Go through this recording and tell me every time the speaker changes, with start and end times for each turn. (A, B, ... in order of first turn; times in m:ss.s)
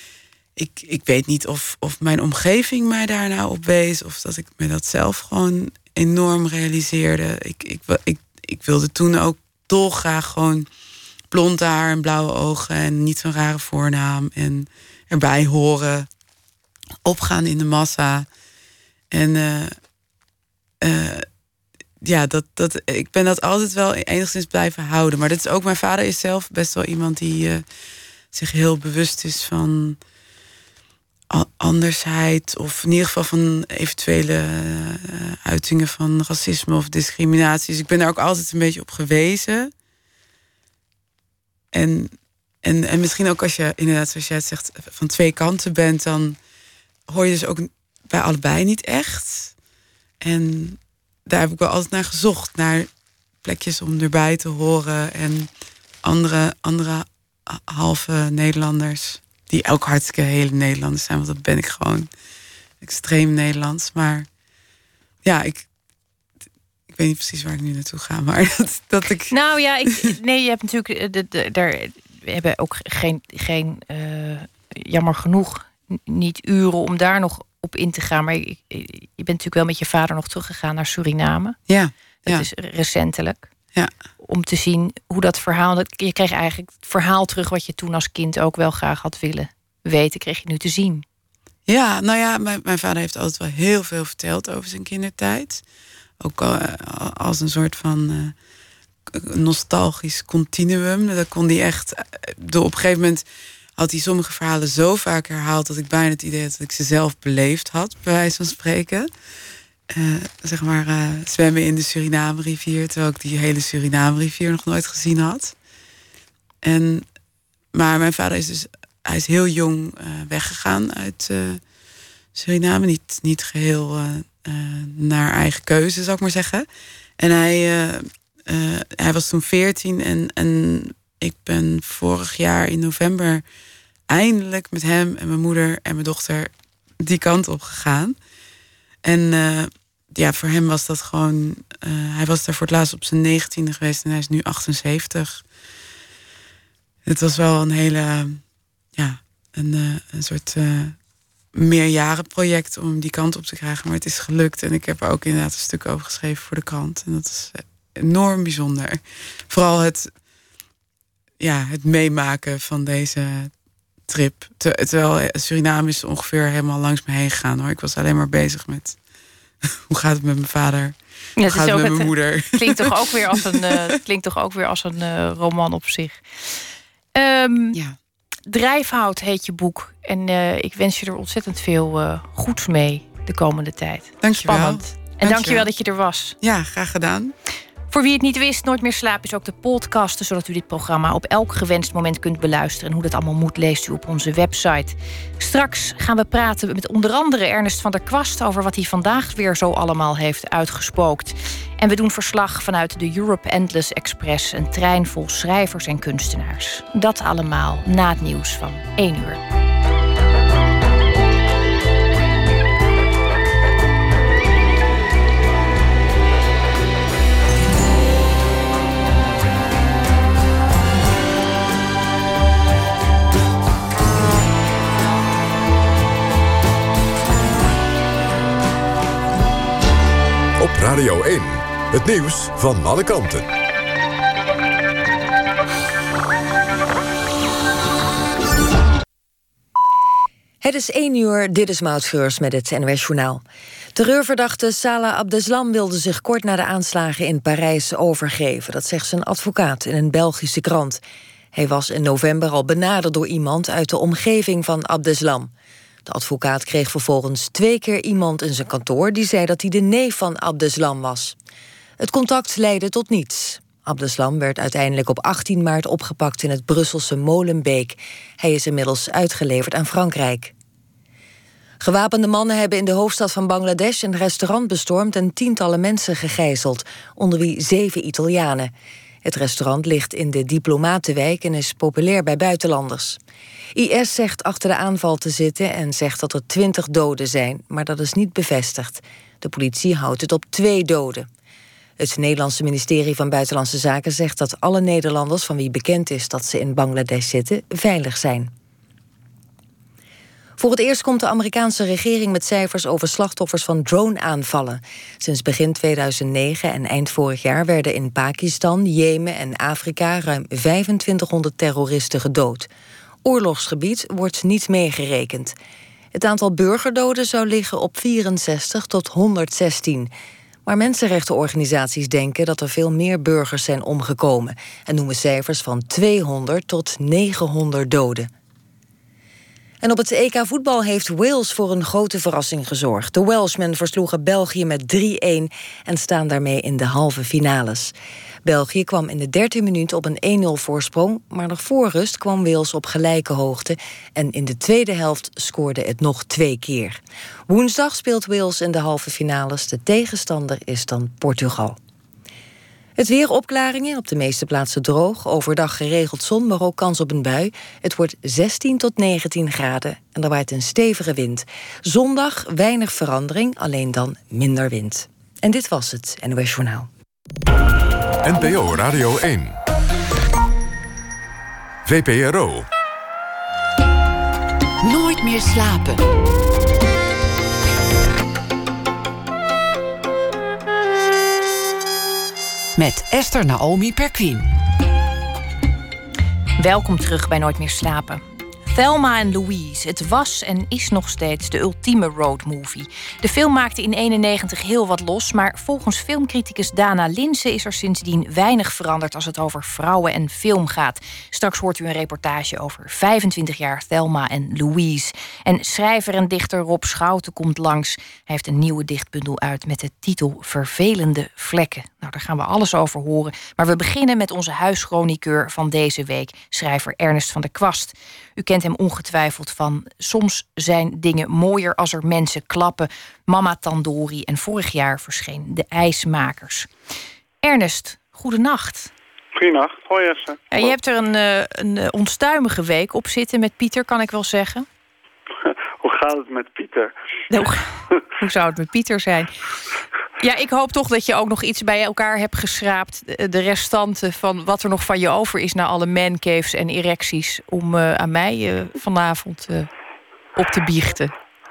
0:00.6-0:10.7 A
0:11.3-0:16.1 A
0:17.0-0:18.3 A
0:19.1-0:19.7 A
0:20.8-0:21.2 A
0:22.0-0:27.6 A
0:28.3-0:30.0 A
0:31.3-0:39.7 A
0:41.7-0:46.4 A
0:47.1-0:49.5 A
0:50.2-0:52.9 A
0:53.4-0:55.5 A
0:56.0-1:02.1 A
1:02.8-1:04.3 A
1:05.2-1:05.7 A
1:06.9-1:09.3 A
1:09.3-1:21.6 B
1:21.7-1:22.5 A
1:22.2-1:23.5 B
1:24.2-1:31.0 B
1:31.7-1:35.6 A
1:36.2-1:38.3 A
1:39.1-1:43.2 A
1:43.8-1:49.1 A
1:49.9-1:55.5 A
1:56.6-1:57.0 A
1:57.7-2:01.6 A
2:02.3-2:06.7 A
2:07.2-2:13.4 A
2:14.1-2:18.2 A
2:19.0-2:25.4 A
2:27.0-2:28.4 A
2:29.0-2:31.0 A
2:31.5-2:40.1 A
2:41.4-2:43.5 A
2:44.1-2:49.0 A
2:49.9-2:53.8 A
2:51.4-2:56.2 B
2:57.1-2:57.8 B
2:58.5-3:06.4 B
3:04.2-3:05.7 A
3:06.4-3:07.3 A
3:07.9-3:29.4 B
3:50.6-3:53.5 C
4:00.6-4:03.4 D
4:03.9-4:11.0 D
4:11.5-4:15.5 D
4:16.0-4:21.4 D
4:22.0-4:30.5 D
4:31.8-4:38.7 D
4:39.2-4:43.2 D
4:43.7-4:51.3 D
4:52.0-4:58.5 D
5:00.6-5:12.7 D
5:13.2-5:15.5 D
5:16.1-5:20.1 D
5:20.6-5:28.3 D
5:29.8-5:37.9 D
5:38.4-5:51.8 D
5:53.0-6:06.9 D
6:08.2-6:09.6 C
6:11.8-6:12.7 C
6:14.8-6:16.0 E
6:22.8-6:24.5 E
6:26.6-7:06.7 B
7:07.4-7:08.9 B
7:09.4-7:10.7 F
7:10.5-7:14.7 B
7:15.8-7:16.9 F
7:17.3-7:19.3 B
7:20.2-7:29.7 B
7:30.4-7:31.1 B